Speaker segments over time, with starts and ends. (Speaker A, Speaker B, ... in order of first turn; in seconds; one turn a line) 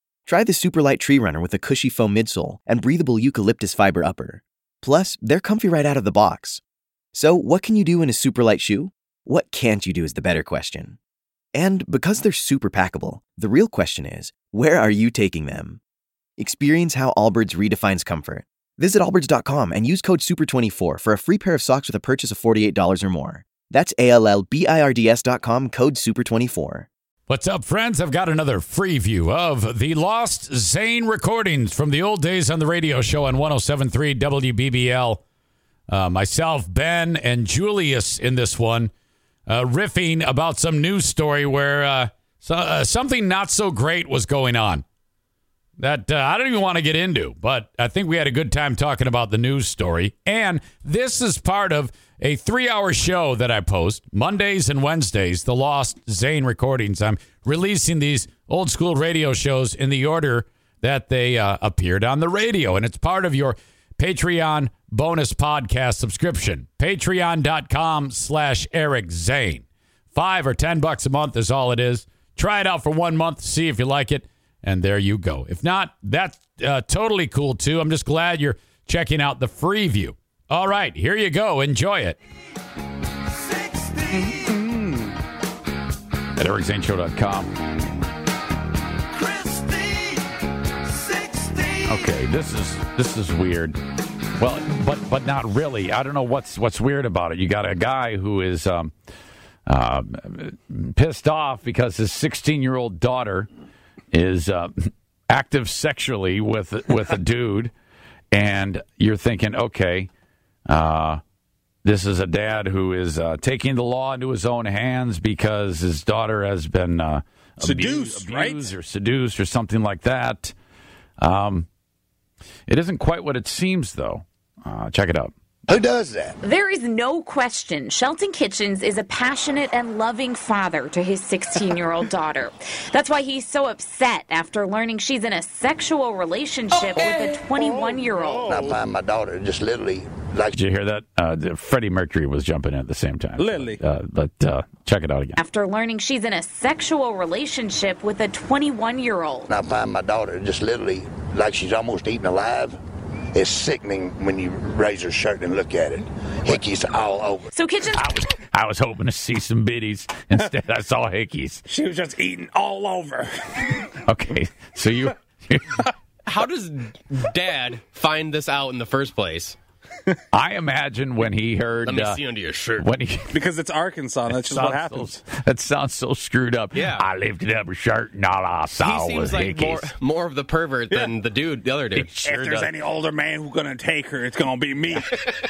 Speaker A: 0.3-6.6
Speaker A: 7.1-11.0
Speaker A: 11.6-15.8
Speaker A: 16.4-26.9
Speaker B: 27.3-35.2
Speaker B: 35.9-38.9
Speaker B: 39.5-44.8
Speaker B: 45.8-82.2
Speaker C: 84.1-85.2
Speaker B: 86.4-87.5
Speaker B: 91.8-93.8
Speaker B: 94.4-98.9
Speaker B: 99.7-103.5
Speaker B: 104.1-107.7
Speaker B: 108.3-110.1
Speaker B: 110.7-111.2
Speaker B: 111.8-120.5
Speaker C: 117.6-118.7
Speaker B: 121.2-121.7
Speaker B: 122.7-125.3
Speaker D: 125.7-126.4
Speaker E: 126.4-138.5
Speaker C: 136.8-138.8
Speaker D: 138.5-140.6
Speaker B: 140.5-145.4
Speaker C: 143.4-143.8
Speaker E: 145.4-149.5
Speaker D: 149.5-152.8
Speaker D: 153.3-157.5
Speaker E: 157.5-158.1
Speaker B: 157.9-161.6
Speaker C: 161.7-163.7
Speaker B: 164.1-165.9
Speaker F: 166.3-169.6
Speaker B: 170.3-172.2
Speaker F: 171.8-172.9
Speaker B: 172.7-173.4
Speaker C: 173.3-175.2
Speaker B: 174.3-179.9
Speaker F: 176.8-177.1
Speaker F: 178.8-182.2
Speaker C: 180.9-181.1
Speaker B: 181.9-182.7
Speaker C: 182.2-185.2